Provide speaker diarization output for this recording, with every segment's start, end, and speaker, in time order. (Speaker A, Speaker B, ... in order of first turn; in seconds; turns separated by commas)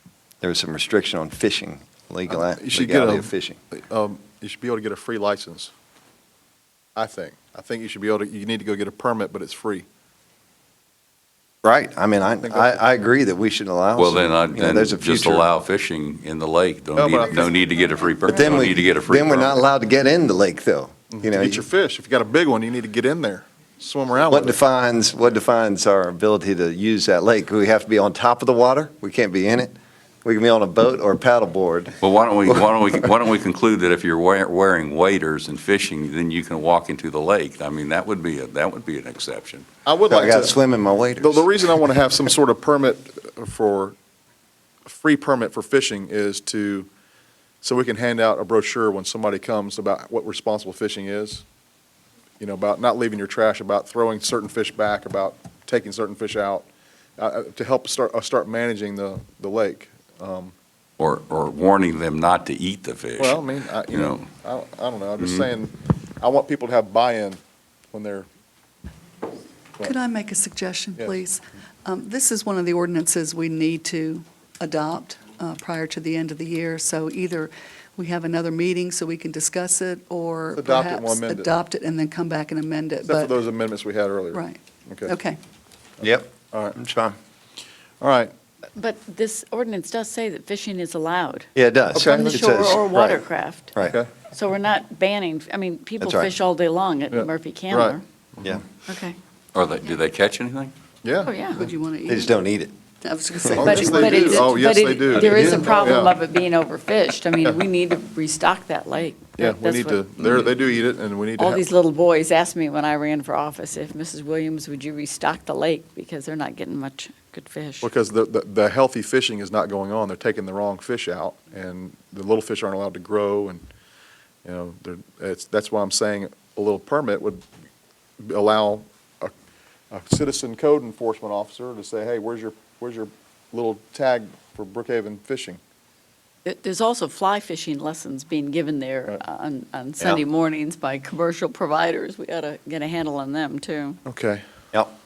Speaker A: 0.4-3.6, Speaker B: 2.3-5.7, Speaker B: 6.9-9.8, Speaker A: 11.6-15.4, Speaker B: 12.4-12.8, Speaker C: 13.9-19.6, Speaker B: 16.9-17.5, Speaker A: 18.3-21.6, Speaker B: 21.1-24.6, Speaker A: 24.3-32.6, Speaker C: 32.0-39.7, Speaker B: 39.9-40.6, Speaker A: 40.1-41.4, Speaker B: 41.2-44.0, Speaker B: 44.9-46.9, Speaker B: 47.6-51.4, Speaker B: 52.4-60.5, Speaker C: 61.0-64.3, Speaker B: 63.2-67.4, Speaker C: 65.2-65.5, Speaker B: 67.9-68.3, Speaker D: 69.8-83.3, Speaker B: 80.5-81.5, Speaker B: 83.0-85.1, Speaker D: 84.3-85.4, Speaker A: 86.0-87.2, Speaker B: 86.5-86.8, Speaker B: 88.0-88.3, Speaker E: 88.8-91.5, Speaker A: 91.5-94.0, Speaker B: 91.9-92.4, Speaker E: 92.0-98.0, Speaker A: 96.0-96.3, Speaker B: 97.1-98.6, Speaker D: 98.9-99.2, Speaker C: 99.5-100.7, Speaker B: 101.0-101.7, Speaker E: 101.2-101.7, Speaker D: 101.5-102.4, Speaker A: 102.1-102.7, Speaker D: 103.0-104.6, Speaker A: 103.4-103.7, Speaker B: 103.6-106.1, Speaker E: 103.6-110.5, Speaker A: 105.2-105.9, Speaker B: 109.4-111.6, Speaker E: 111.4-117.9, Speaker B: 117.8-123.7, Speaker B: 124.4-127.4, Speaker B: 128.2-129.3, Speaker B: 129.9-135.6, Speaker E: 136.4-144.0, Speaker B: 144.1-144.4